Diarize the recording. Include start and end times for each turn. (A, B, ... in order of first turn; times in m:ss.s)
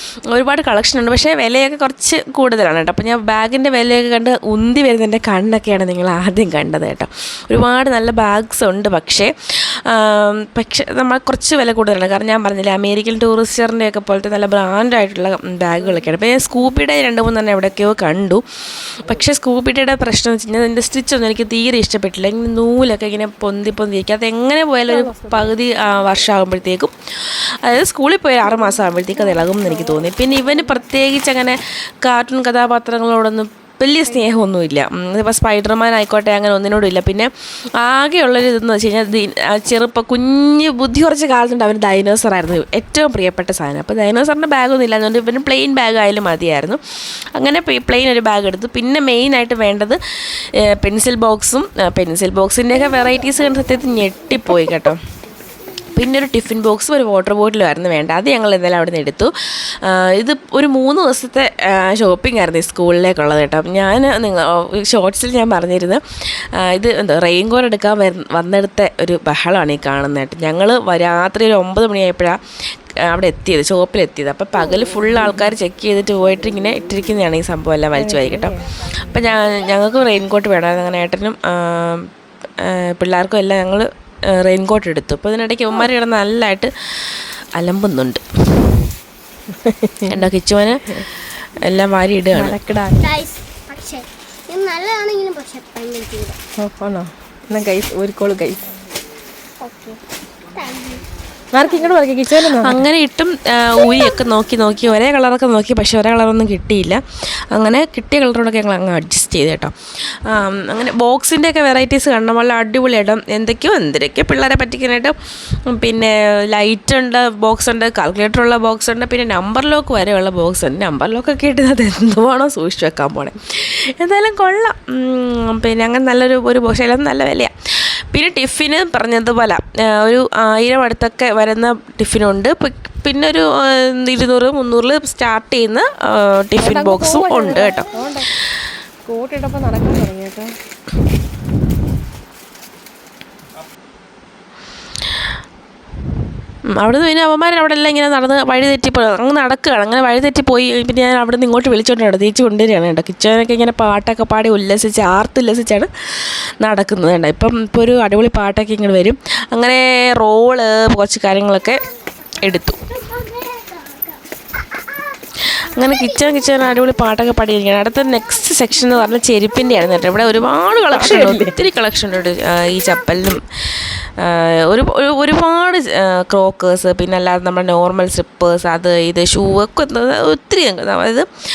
0:00.3-0:46.8 A
0:24.9-0:25.6 B
0:29.3-0:30.0 B
0:47.4-0:55.0 A
0:55.9-1:06.0 A
1:06.6-1:12.4 A
1:13.1-1:22.1 A
1:18.0-1:18.6 B
1:22.6-1:28.7 A
1:29.6-1:30.2 B
1:30.1-1:32.6 A
1:32.3-1:33.1 B
1:33.0-1:36.4 C
1:36.6-1:38.7 B
1:39.6-1:40.0 C
1:40.6-1:41.0 C
1:41.5-1:42.8 B
1:42.3-1:55.2 A
1:55.7-2:18.0 A
2:16.6-2:18.3 B
2:19.1-2:20.5 B
2:26.7-2:41.8 A
2:42.4-2:43.0 A
2:43.3-2:43.8 C
2:45.6-3:01.3 A
2:50.9-2:51.6 B